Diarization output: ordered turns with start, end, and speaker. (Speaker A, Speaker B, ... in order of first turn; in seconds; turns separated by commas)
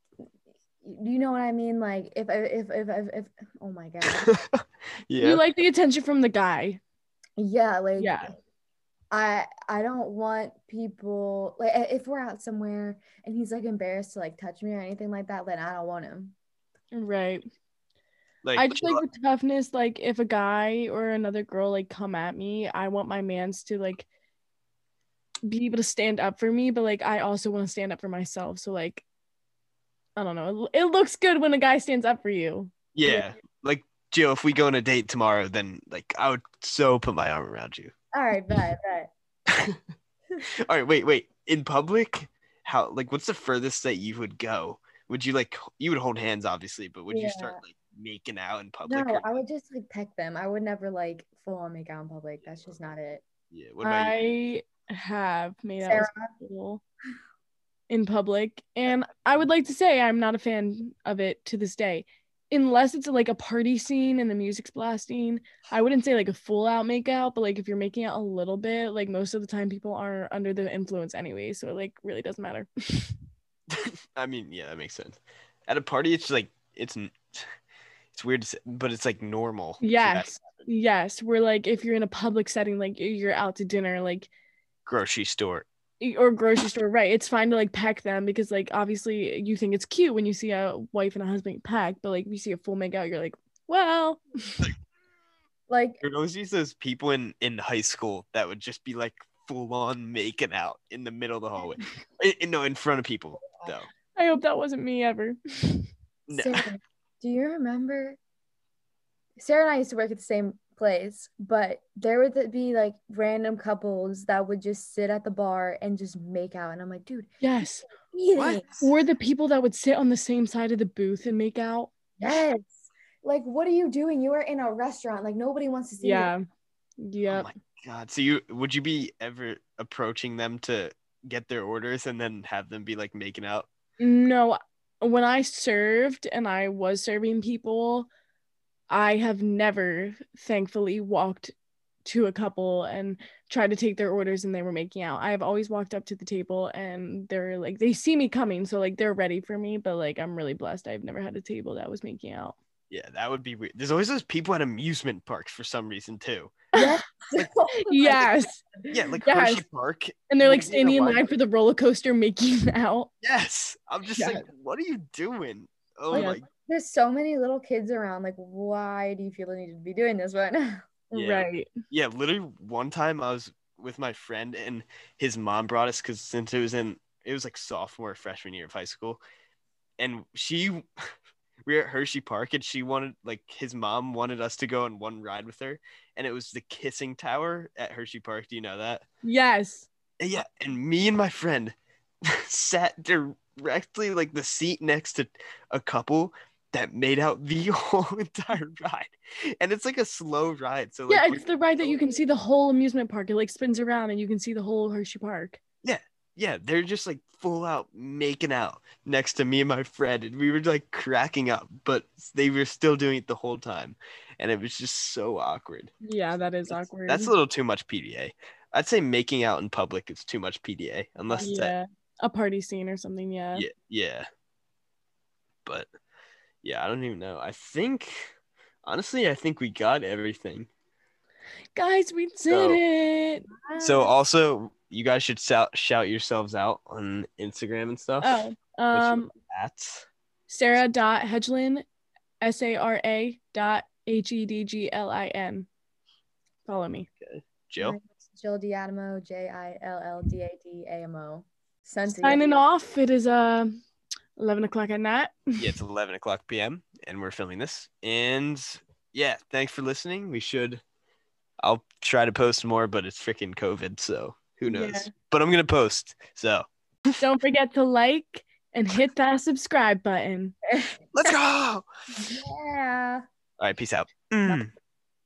Speaker A: 0.8-4.3, Speaker B: 4.0-5.4, Speaker C: 5.2-6.8, Speaker A: 7.4-8.2, Speaker C: 8.0-8.3, Speaker A: 9.1-16.3, Speaker C: 16.9-17.4, Speaker B: 18.4-19.0, Speaker C: 18.5-24.1, Speaker C: 25.4-29.0, Speaker C: 30.2-33.3, Speaker B: 32.9-37.9, Speaker A: 38.1-39.1, Speaker B: 39.5-39.8, Speaker B: 40.6-49.3, Speaker A: 47.1-47.6, Speaker A: 48.9-53.2, Speaker B: 53.5-54.2, Speaker C: 53.8-56.8, Speaker A: 55.8-56.3, Speaker C: 57.9-73.2, Speaker B: 73.7-75.2, Speaker B: 75.7-77.5, Speaker B: 78.1-80.6, Speaker C: 79.8-84.3, Speaker B: 84.8-85.7, Speaker C: 86.0-94.7, Speaker A: 95.7-96.0, Speaker B: 96.0-103.9, Speaker C: 104.1-105.9, Speaker B: 106.3-106.7, Speaker A: 106.3-108.2, Speaker A: 109.4-117.3, Speaker C: 117.4-117.8, Speaker A: 118.1-118.8, Speaker B: 118.3-118.8, Speaker C: 118.8-121.9, Speaker A: 122.2-126.3, Speaker C: 126.0-126.4, Speaker C: 127.0-127.5, Speaker B: 127.2-133.7, Speaker C: 134.0-138.1, Speaker C: 138.9-141.5, Speaker C: 142.0-152.6, Speaker B: 152.9-156.5, Speaker A: 156.7-158.9, Speaker C: 157.8-158.6, Speaker B: 158.9-161.3, Speaker C: 159.2-159.6, Speaker C: 160.3-163.1, Speaker B: 163.2-166.4, Speaker C: 164.2-164.4, Speaker A: 166.1-171.1, Speaker C: 166.1-166.4, Speaker C: 171.1-171.7, Speaker B: 171.1-179.2, Speaker B: 180.0-180.8, Speaker B: 181.6-189.0, Speaker C: 189.2-189.9, Speaker B: 190.2-202.0, Speaker C: 201.1-205.6, Speaker B: 205.8-215.9, Speaker C: 216.0-217.3, Speaker B: 216.7-221.7, Speaker C: 221.4-223.7, Speaker B: 223.5-224.3, Speaker B: 226.6-228.3, Speaker B: 228.8-230.7, Speaker C: 231.7-233.5, Speaker B: 232.5-232.8, Speaker A: 233.5-234.1, Speaker B: 233.8-240.1, Speaker C: 238.2-239.3, Speaker C: 240.5-241.8, Speaker C: 242.4-245.7, Speaker C: 246.7-247.1, Speaker B: 247.2-248.0, Speaker A: 247.8-252.4, Speaker C: 252.2-253.7, Speaker C: 254.4-255.7, Speaker B: 255.6-260.8, Speaker B: 261.6-267.1, Speaker C: 264.7-265.1, Speaker C: 267.2-270.6, Speaker A: 270.7-271.3, Speaker B: 271.1-271.8, Speaker A: 272.2-273.2, Speaker B: 273.6-274.7